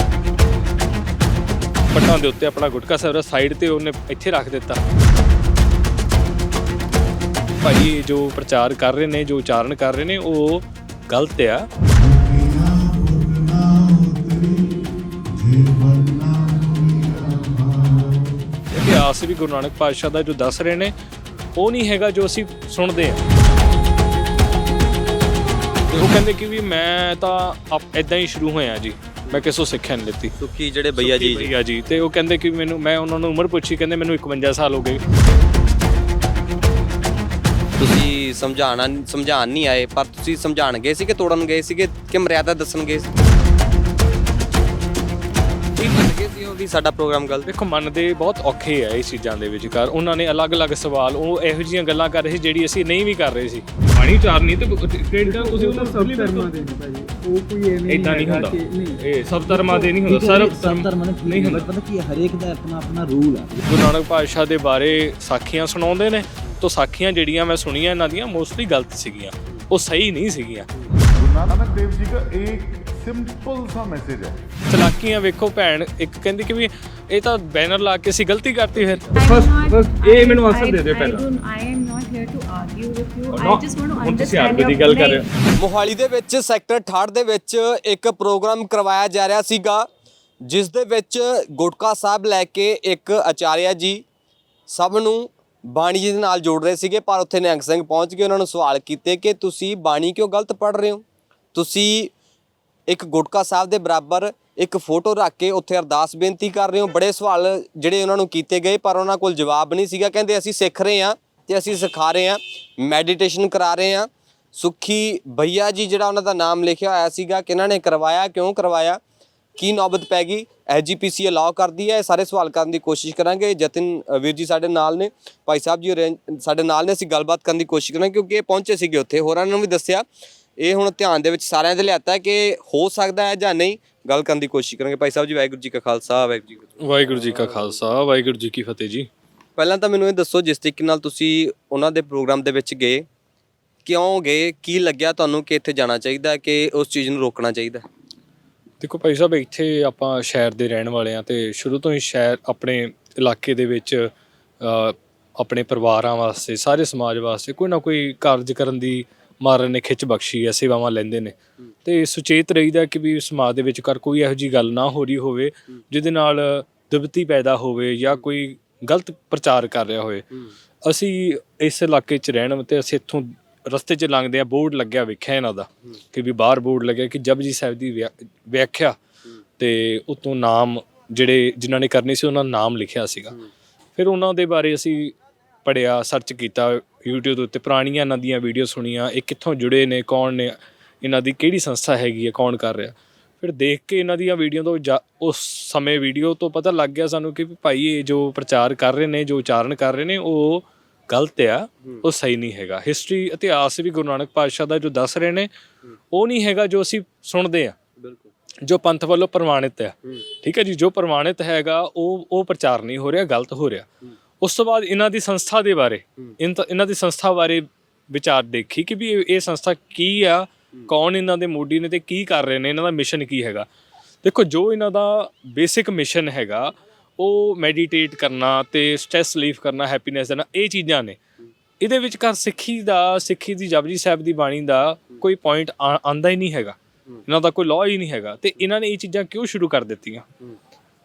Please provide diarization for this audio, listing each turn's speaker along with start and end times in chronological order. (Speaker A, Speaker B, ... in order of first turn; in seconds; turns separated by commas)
Speaker A: 1.9-4.8, Speaker A: 7.6-11.7, Speaker B: 11.9-18.3, Speaker A: 18.7-20.9, Speaker A: 21.6-23.2, Speaker A: 25.9-30.3, Speaker C: 30.4-31.5, Speaker A: 31.0-35.0, Speaker C: 37.8-43.1, Speaker C: 45.8-47.5, Speaker A: 47.5-56.7, Speaker D: 55.3-59.9, Speaker A: 57.9-61.7, Speaker E: 60.0-63.6, Speaker A: 63.7-70.7, Speaker B: 71.2-74.4, Speaker A: 74.7-81.2, Speaker F: 79.2-85.2, Speaker A: 83.3-85.2, Speaker C: 85.6-89.9, Speaker C: 90.4-94.0, Speaker C: 94.7-102.1, Speaker C: 102.9-119.0, Speaker C: 119.6-130.0, Speaker C: 130.6-136.8, Speaker A: 136.8-139.1, Speaker C: 139.6-143.1, Speaker C: 143.8-147.8, Speaker A: 148.8-154.1, Speaker A: 154.6-161.3, Speaker A: 161.8-170.3, Speaker A: 170.8-179.0, Speaker A: 179.6-183.3, Speaker A: 184.0-205.5, Speaker A: 206.1-207.8, Speaker C: 208.0-208.3, Speaker A: 208.6-213.9, Speaker A: 214.4-223.7, Speaker A: 224.2-231.2, Speaker A: 231.8-236.8, Speaker A: 237.3-240.2